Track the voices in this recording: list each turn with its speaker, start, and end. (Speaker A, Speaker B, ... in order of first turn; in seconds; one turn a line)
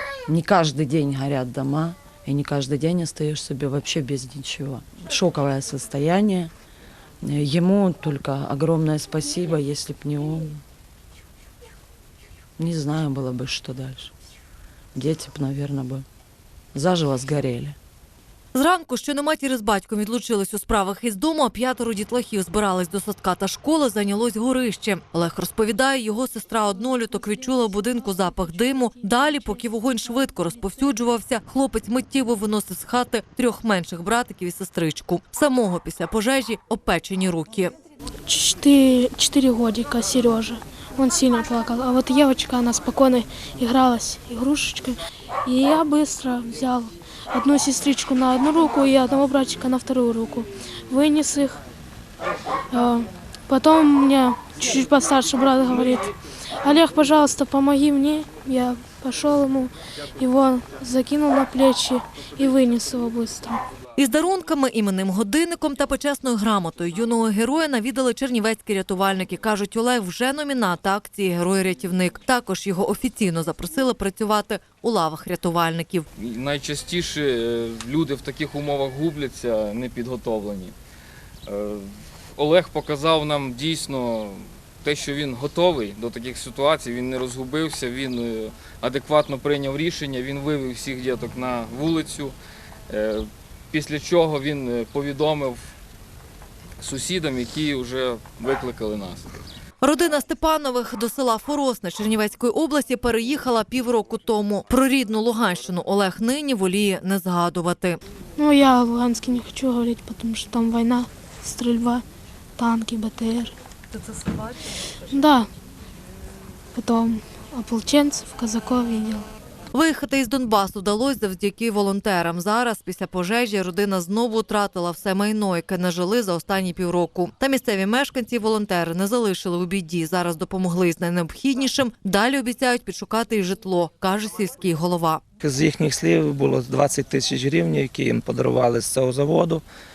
Speaker A: 0.3-6.5
Speaker A: 7.2-10.6
Speaker A: 12.6-14.1
Speaker A: 14.9-16.1
Speaker A: 16.7-17.8
Speaker B: 18.5-37.7
Speaker C: 27.7-30.0
Speaker C: 38.2-51.6
Speaker C: 52.7-63.6
Speaker B: 64.0-76.1
Speaker D: 76.2-80.8
Speaker D: 81.5-92.3
Speaker D: 92.9-95.6
Speaker D: 96.8-99.3
Speaker B: 99.8-108.0
Speaker C: 108.4-112.0
Speaker C: 112.6-113.5
Speaker C: 114.9-115.5
Speaker C: 116.8-119.3
Speaker B: 119.7-135.2
Speaker E: 135.4-139.6